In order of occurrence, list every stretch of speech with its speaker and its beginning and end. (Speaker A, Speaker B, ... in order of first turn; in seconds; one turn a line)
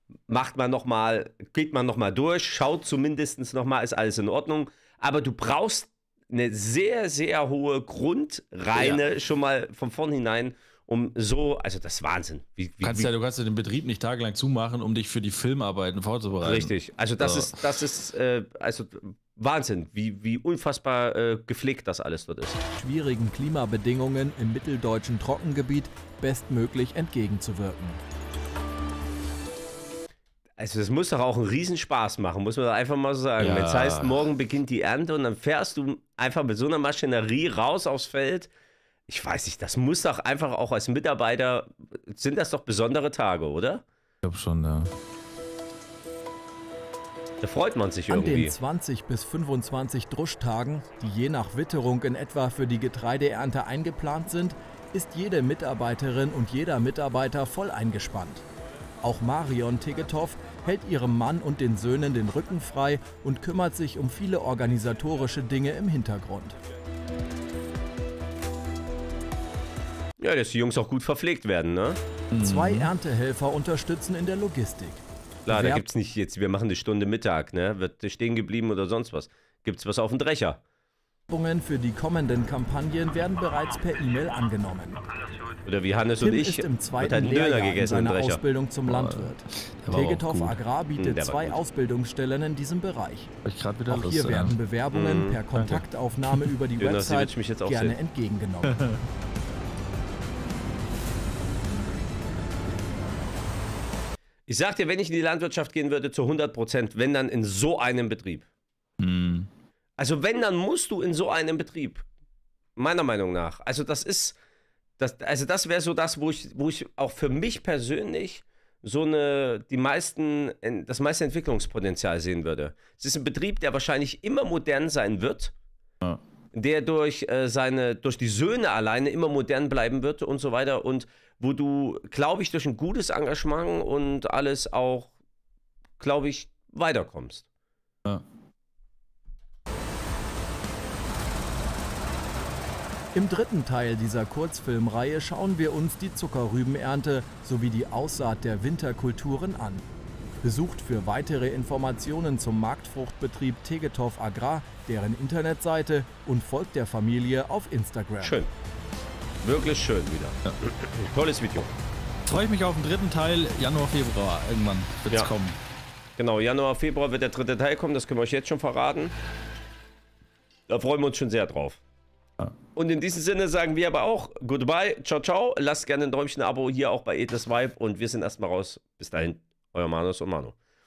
Speaker A: 0.3-13.1
Speaker B: 8.8-9.0
Speaker B: 12.8-17.6
Speaker A: 16.4-22.6
Speaker C: 22.8-28.0
Speaker A: 30.6-38.5
Speaker B: 33.4-34.2
Speaker A: 39.1-43.8
Speaker B: 44.2-44.9
Speaker A: 47.4-48.5
Speaker C: 48.1-58.5
Speaker C: 59.0-66.6
Speaker A: 70.2-72.0
Speaker B: 72.3-72.9
Speaker C: 72.4-75.9
Speaker A: 75.5-80.6
Speaker C: 81.3-85.0
Speaker A: 85.7-88.4
Speaker C: 86.2-93.3
Speaker B: 88.9-90.6
Speaker A: 91.0-91.5
Speaker B: 93.4-94.6
Speaker C: 93.9-98.8
Speaker A: 94.9-95.4
Speaker B: 95.5-96.5
Speaker A: 96.8-98.0
Speaker B: 98.6-99.0
Speaker A: 104.5-108.5
Speaker B: 109.0-109.5
Speaker A: 110.0-112.0
Speaker A: 112.8-114.4
Speaker A: 115.0-125.5
Speaker A: 126.5-135.1
Speaker A: 136.0-137.5
Speaker C: 143.2-149.9
Speaker C: 150.4-158.4
Speaker A: 158.2-158.5
Speaker A: 159.4-161.7
Speaker B: 162.3-165.6
Speaker A: 166.2-169.1
Speaker A: 170.7-171.8
Speaker A: 172.8-180.6